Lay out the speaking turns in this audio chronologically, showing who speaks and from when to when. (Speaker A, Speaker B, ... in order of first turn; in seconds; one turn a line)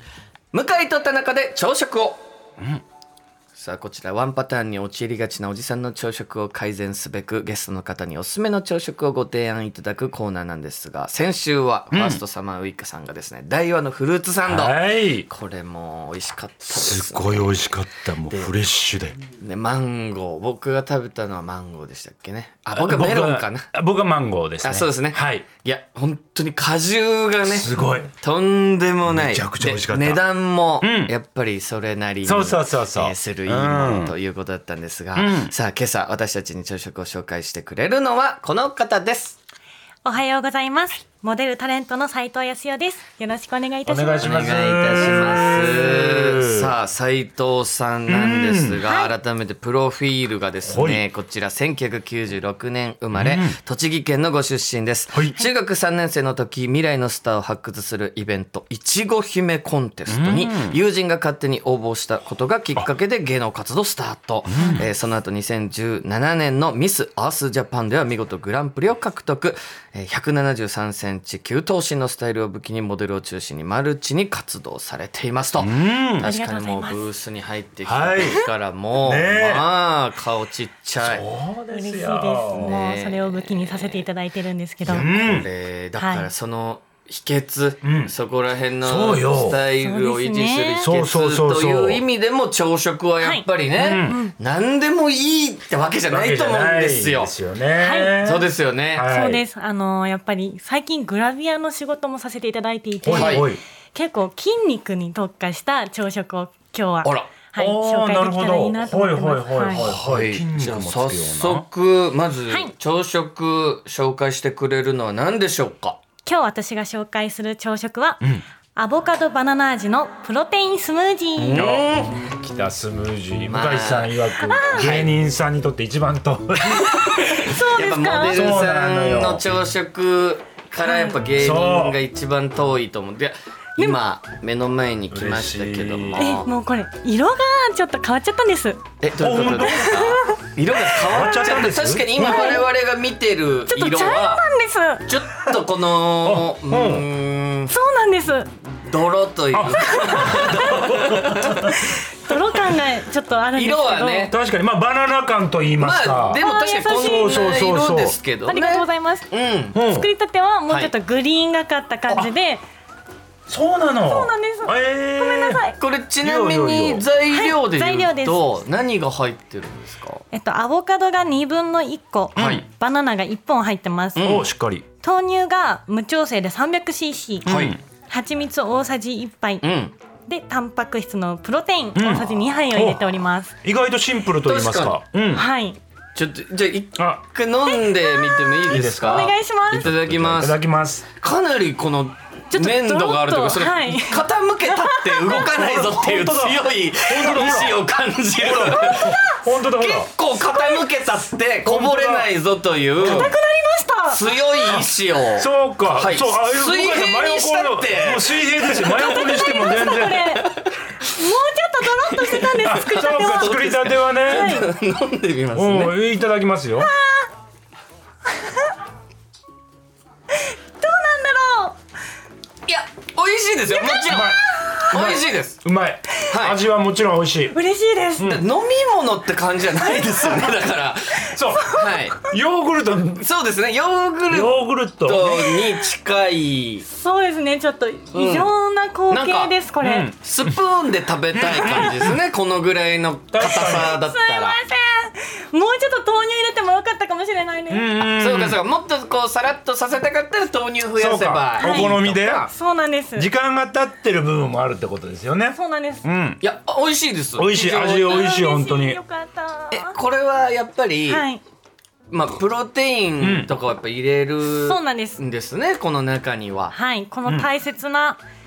Speaker A: 0.5-2.2
Speaker A: 3.6-14.7
Speaker B: 11.9-12.2
Speaker B: 14.4-15.3
Speaker A: 15.3-17.6
Speaker B: 16.7-19.2
Speaker A: 18.3-18.5
Speaker A: 19.4-23.7
Speaker B: 22.7-25.4
Speaker A: 24.6-27.7
Speaker B: 27.4-28.1
Speaker A: 28.2-39.4
Speaker B: 29.1-30.2
Speaker B: 30.8-31.1
Speaker B: 32.2-34.1
Speaker B: 35.1-35.5
Speaker C: 40.0-44.5
Speaker B: 43.9-46.7
Speaker A: 44.2-81.2
Speaker B: 48.1-48.8
Speaker C: 48.8-49.1
Speaker B: 50.6-51.0
Speaker B: 53.1-53.6
Speaker B: 55.1-55.4
Speaker B: 60.1-60.8
Speaker B: 64.5-64.9
Speaker C: 64.5-64.9
Speaker B: 75.6-76.3
Speaker C: 76.2-77.0
Speaker B: 77.8-78.4
Speaker B: 79.0-79.7
Speaker B: 81.0-82.7
Speaker C: 81.7-85.1
Speaker A: 82.5-84.0
Speaker A: 84.8-97.3
Speaker B: 84.9-85.5
Speaker C: 86.0-86.3
Speaker B: 87.8-88.1
Speaker B: 88.8-89.6
Speaker C: 89.6-90.9
Speaker B: 90.8-92.0
Speaker C: 93.2-93.4
Speaker B: 93.8-94.2
Speaker C: 94.0-94.3
Speaker B: 96.1-99.4
Speaker C: 97.8-98.3
Speaker A: 98.2-99.1
Speaker C: 99.0-109.8
Speaker B: 103.0-103.6
Speaker A: 103.1-103.5
Speaker A: 107.0-107.3
Speaker B: 107.6-111.7
Speaker A: 109.7-116.0
Speaker C: 116.2-121.7
Speaker B: 121.4-127.0
Speaker A: 121.5-122.2
Speaker A: 123.4-125.2
Speaker C: 124.4-124.9
Speaker C: 126.9-128.5
Speaker A: 127.0-136.5
Speaker B: 128.3-129.4
Speaker C: 130.8-131.2
Speaker B: 131.3-132.0
Speaker B: 135.1-136.3
Speaker C: 136.2-138.8
Speaker A: 139.0-144.4
Speaker B: 139.2-140.3
Speaker C: 139.6-140.3
Speaker B: 141.0-142.6
Speaker C: 142.2-142.6
Speaker C: 143.7-145.1
Speaker A: 145.1-147.7
Speaker B: 146.2-147.0
Speaker C: 147.7-148.5
Speaker A: 148.5-151.7
Speaker B: 149.5-151.8
Speaker C: 150.1-150.9
Speaker C: 151.7-154.3
Speaker A: 153.5-154.3
Speaker B: 154.3-158.2
Speaker A: 155.8-159.8
Speaker C: 156.3-157.7
Speaker C: 158.5-162.6
Speaker B: 159.7-160.1
Speaker B: 163.5-165.6
Speaker C: 164.0-165.8
Speaker A: 165.8-170.2
Speaker B: 166.2-167.1
Speaker C: 167.3-168.7
Speaker C: 170.3-174.4
Speaker B: 172.3-172.7
Speaker A: 172.3-172.7
Speaker A: 174.2-174.5
Speaker B: 174.2-174.8
Speaker C: 175.0-177.5
Speaker A: 177.4-177.8
Speaker B: 177.4-177.8
Speaker C: 178.1-179.7
Speaker A: 179.6-179.9
Speaker C: 180.2-183.5
Speaker B: 181.9-185.4
Speaker A: 184.4-185.0
Speaker C: 185.3-185.8
Speaker A: 186.2-190.6
Speaker B: 187.0-187.2
Speaker C: 187.7-189.9
Speaker B: 188.7-191.1
Speaker A: 191.2-199.2
Speaker C: 192.5-195.4
Speaker B: 195.3-197.8
Speaker B: 198.4-200.1
Speaker C: 198.7-199.5
Speaker A: 199.8-203.3
Speaker C: 200.4-200.9
Speaker B: 201.6-202.3
Speaker B: 203.0-203.3
Speaker C: 203.0-204.8
Speaker A: 204.1-210.7
Speaker B: 204.7-210.2
Speaker C: 208.9-210.5
Speaker C: 211.0-213.6
Speaker A: 212.0-215.9
Speaker B: 212.6-214.7
Speaker C: 214.2-214.7
Speaker B: 215.5-216.9
Speaker C: 216.8-217.3
Speaker C: 218.3-218.7
Speaker C: 220.3-221.8
Speaker A: 222.7-224.3
Speaker C: 223.7-224.9
Speaker B: 224.1-227.5
Speaker A: 224.9-225.6
Speaker A: 226.3-226.6
Speaker C: 227.5-228.4
Speaker A: 228.2-232.2
Speaker C: 229.8-230.6
Speaker C: 231.3-231.9
Speaker B: 231.3-233.2
Speaker A: 233.2-236.8
Speaker B: 234.3-235.4
Speaker C: 235.3-235.7
Speaker C: 236.8-240.1
Speaker A: 238.1-238.5
Speaker A: 239.1-239.5
Speaker B: 239.8-240.5
Speaker A: 240.2-244.6
Speaker B: 241.3-242.2
Speaker B: 243.3-244.0
Speaker C: 244.0-247.9
Speaker B: 247.7-248.6
Speaker A: 248.0-252.5
Speaker B: 251.0-252.5
Speaker C: 251.6-253.3
Speaker B: 253.2-256.4
Speaker C: 255.5-256.1
Speaker A: 256.4-258.3
Speaker B: 257.4-259.0
Speaker C: 258.1-260.0
Speaker A: 259.7-261.2
Speaker C: 261.1-261.4
Speaker A: 262.1-266.7
Speaker B: 263.2-263.5
Speaker C: 264.4-265.2
Speaker C: 266.7-268.2